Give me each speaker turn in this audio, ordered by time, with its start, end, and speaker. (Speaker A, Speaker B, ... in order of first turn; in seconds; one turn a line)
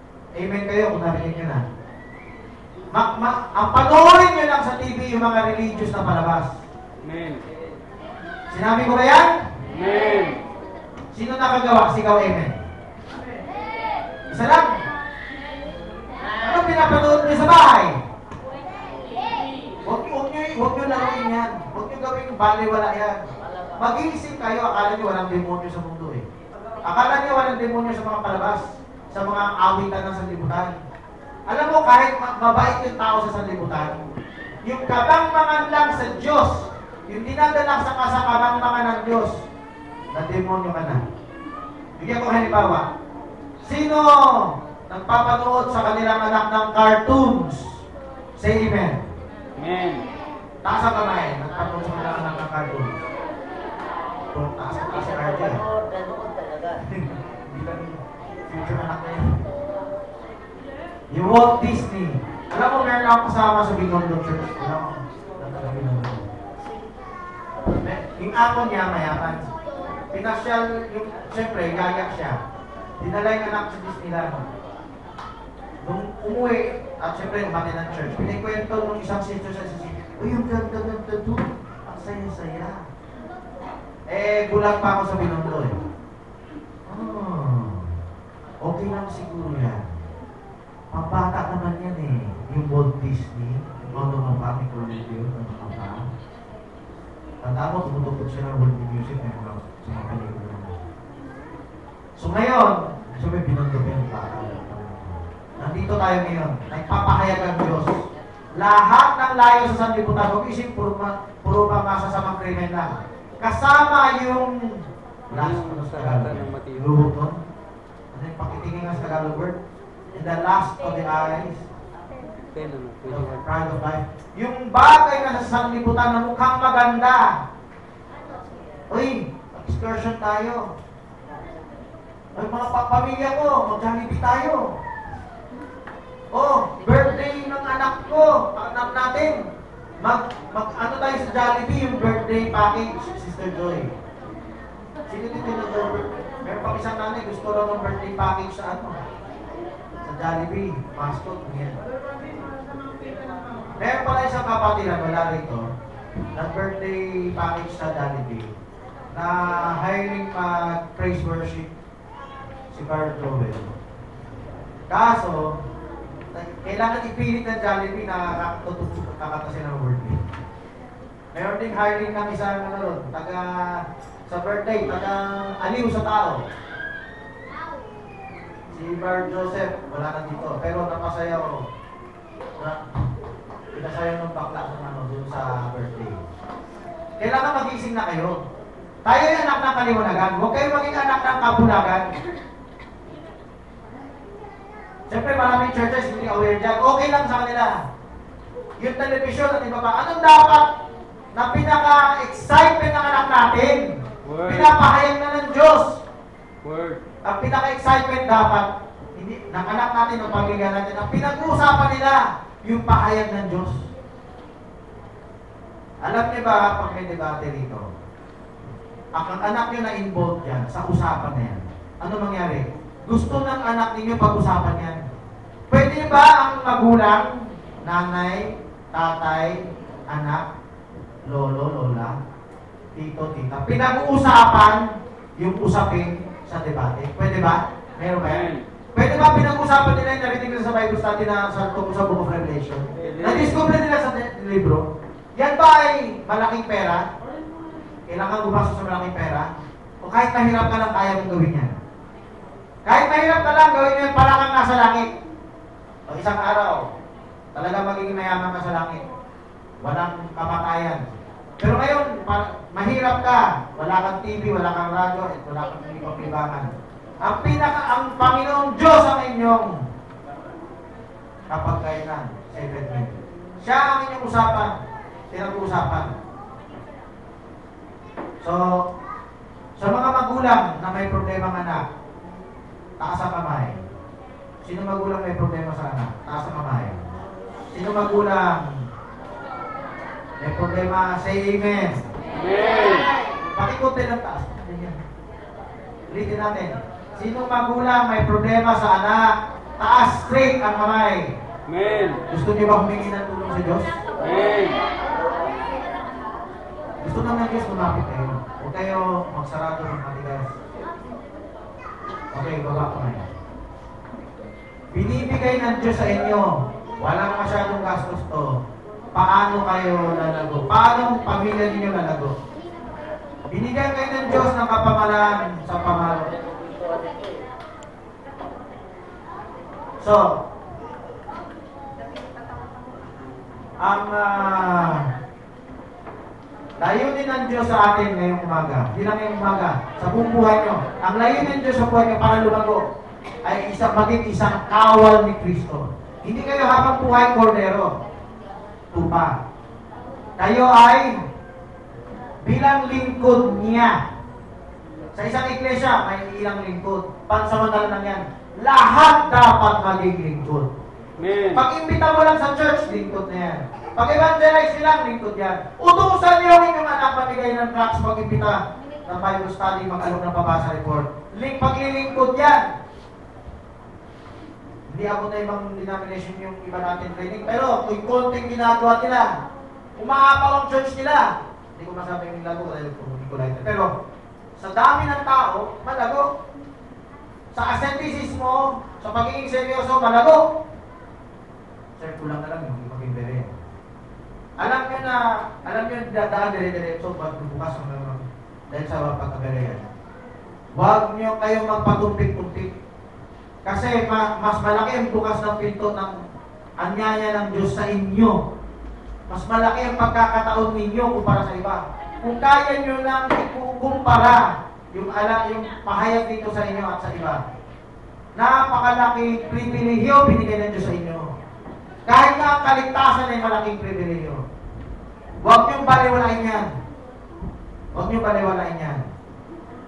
Speaker A: 0.4-1.6
Speaker A: 2.9-6.5
Speaker B: 7.0-7.4
Speaker A: 8.5-9.4
Speaker B: 9.7-10.4
Speaker A: 11.1-12.6
Speaker A: 14.3-14.8
Speaker A: 16.4-18.0
Speaker C: 19.0-19.8
Speaker A: 19.8-23.2
Speaker C: 23.4-23.8
Speaker A: 23.8-26.2
Speaker A: 26.8-30.7
Speaker A: 31.5-33.9
Speaker A: 34.6-39.4
Speaker A: 40.1-41.0
Speaker A: 42.0-42.9
Speaker A: 43.6-47.8
Speaker A: 48.4-49.0
Speaker B: 49.6-50.1
Speaker A: 50.6-52.9
Speaker A: 54.3-55.6
Speaker C: 55.0-56.8
Speaker A: 56.8-59.4
Speaker A: 61.1-66.3
Speaker A: 67.8-69.4
Speaker A: 70.1-72.4
Speaker A: 73.0-74.5
Speaker A: 75.8-82.8
Speaker A: 84.1-85.8
Speaker A: 86.9-87.9
Speaker A: 88.6-89.9
Speaker A: 90.9-96.0
Speaker A: 97.4-100.8
Speaker A: 102.2-117.4
Speaker B: 115.3-117.1
Speaker A: 118.1-119.6
Speaker A: 120.1-121.6
Speaker B: 122.5-123.5
Speaker A: 123.1-127.4
Speaker A: 128.9-130.7
Speaker A: 132.4-134.7
Speaker A: 136.3-139.4
Speaker A: 140.0-143.9
Speaker A: 145.1-149.0
Speaker A: 150.0-151.8
Speaker A: 153.8-155.6
Speaker A: 156.3-158.5
Speaker A: 159.1-161.7
Speaker A: 162.7-163.7
Speaker A: 164.9-165.6
Speaker A: 166.3-170.2
Speaker A: 171.3-176.4
Speaker A: 178.7-181.6
Speaker A: 183.7-186.2
Speaker A: 187.2-188.4
Speaker A: 189.1-192.1
Speaker A: 195.1-197.8
Speaker A: 198.8-200.7
Speaker A: 201.3-203.9
Speaker B: 204.2-204.7
Speaker A: 204.4-206.0
Speaker B: 206.6-207.0
Speaker A: 207.2-213.8
Speaker A: 216.0-217.8
Speaker A: 219.2-225.0
Speaker A: 225.7-230.4
Speaker A: 231.3-232.2
Speaker A: 232.9-244.8
Speaker B: 238.2-238.6
Speaker B: 243.0-243.6
Speaker A: 245.4-247.1
Speaker A: 248.1-249.5
Speaker A: 250.0-251.8
Speaker A: 252.9-255.1
Speaker A: 256.1-256.8
Speaker A: 257.6-259.0
Speaker A: 259.8-261.1
Speaker A: 261.6-266.7
Speaker A: 267.2-269.8
Speaker A: 271.5-274.8
Speaker A: 275.3-276.1
Speaker A: 278.4-278.8
Speaker A: 279.8-281.8
Speaker A: 283.0-283.8
Speaker A: 284.6-287.2
Speaker A: 287.7-288.8
Speaker A: 290.4-292.1
Speaker A: 293.5-294.9
Speaker A: 296.1-301.3
Speaker B: 301.7-302.2
Speaker A: 302.3-303.9
Speaker B: 304.2-304.8
Speaker A: 307.0-310.5
Speaker A: 312.3-313.3
Speaker A: 314.9-318.6
Speaker A: 319.1-322.3
Speaker A: 323.5-326.3
Speaker A: 330.0-330.3
Speaker A: 333.8-335.1
Speaker A: 336.8-342.8
Speaker A: 343.4-347.9
Speaker A: 348.9-349.3
Speaker A: 350.4-351.2
Speaker A: 352.4-354.0
Speaker A: 355.1-360.7
Speaker B: 361.2-361.6
Speaker A: 361.5-372.7
Speaker A: 374.9-379.3
Speaker A: 380.0-383.9
Speaker A: 384.6-386.3
Speaker A: 387.5-390.4
Speaker A: 392.0-393.6
Speaker A: 394.6-399.8
Speaker A: 400.8-402.7
Speaker A: 403.6-406.2
Speaker A: 406.8-408.4
Speaker A: 409.3-417.4
Speaker A: 418.4-421.3
Speaker A: 422.1-424.4
Speaker A: 425.4-426.7
Speaker A: 427.9-429.0